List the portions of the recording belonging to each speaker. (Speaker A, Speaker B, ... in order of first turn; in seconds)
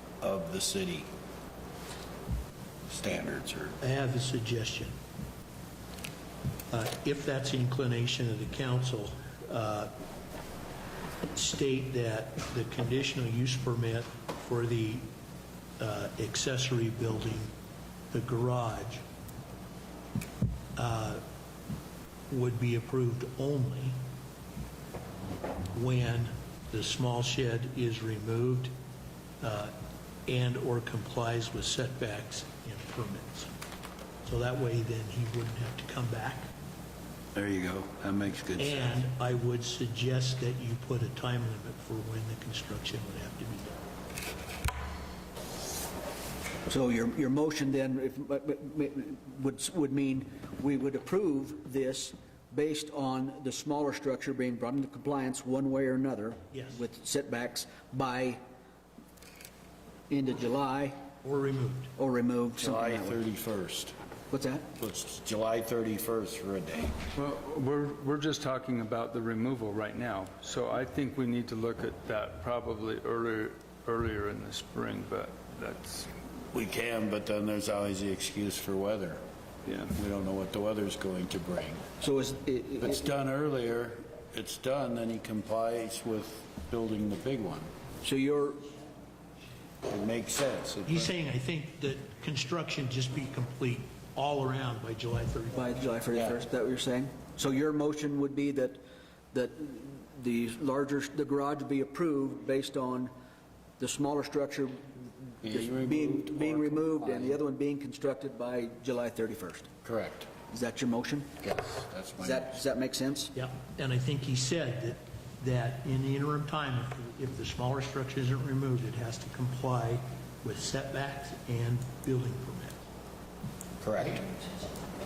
Speaker A: 0.2-1.1, 2.9-3.8, 37.4-39.0, 62.6-64.0, 64.8-67.0, 76.5-79.2, 80.0-81.8, 82.8-87.7, 89.9-91.1, 96.1-96.4, 105.4-107.4, 109.8-110.3, 111.4-112.6, 123.8-124.3
Speaker B: 3.8-5.0, 6.7-9.9, 11.3-15.1, 15.8-17.5, 18.1-19.0, 20.8-21.2, 22.3-24.0, 25.7-28.8, 29.4-29.8, 30.3-33.5, 34.2-36.5, 38.6-43.8, 56.5-56.8, 61.2-61.9, 90.9-95.8, 113.3-122.8
Speaker C: 46.7-58.4, 60.1-61.0, 62.0-63.2, 64.3-64.7, 82.0-83.0, 88.0-88.7, 95.5-98.8, 99.3-103.1, 103.8-109.7, 110.5-111.3, 112.2-113.3
Speaker D: 67.1-76.1, 79.7-80.0